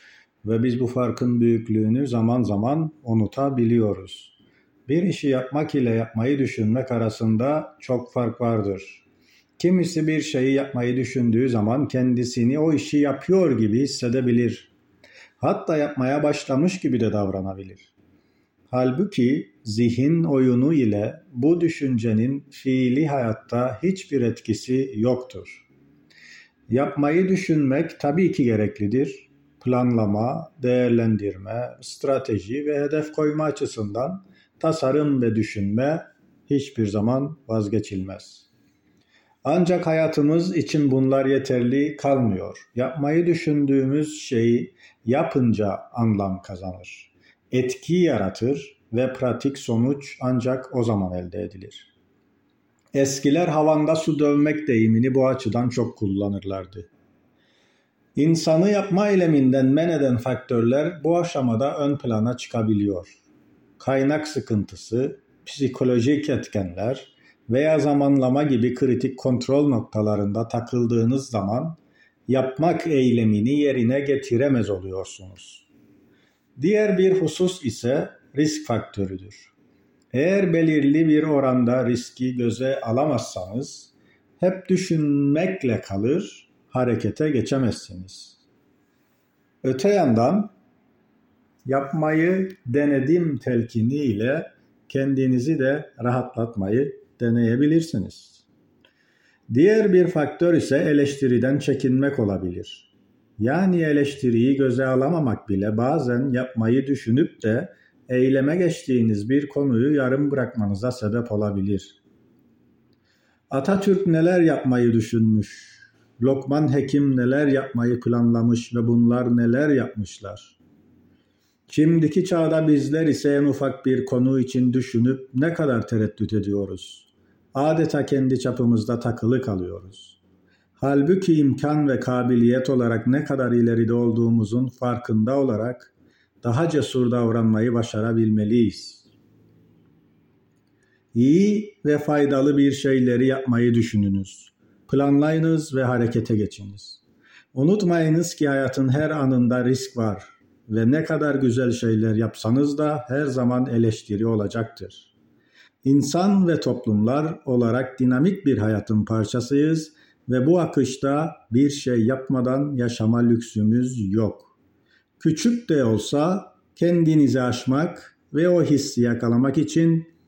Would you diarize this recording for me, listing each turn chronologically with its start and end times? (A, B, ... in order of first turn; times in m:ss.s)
0:00.4-0:04.3 A
0:04.9-0:09.0 A
0:09.6-0:14.7 A
0:15.4-0:17.9 A
0:18.7-0:25.6 A
0:26.7-0:38.5 A
0:39.4-0:51.9 A
0:52.9-0:56.9 A
0:58.2-1:03.2 A
1:03.8-1:15.7 A
1:16.6-1:19.5 A
1:20.1-1:28.4 A
1:29.6-1:30.5 A
1:31.6-1:38.4 A
1:39.5-1:52.0 A
1:53.5-2:00.6 A
2:01.7-2:10.2 A
2:10.8-2:19.1 A
2:21.1-2:27.0 A
2:27.5-2:35.1 A
2:35.8-2:44.5 A
2:45.2-2:50.1 A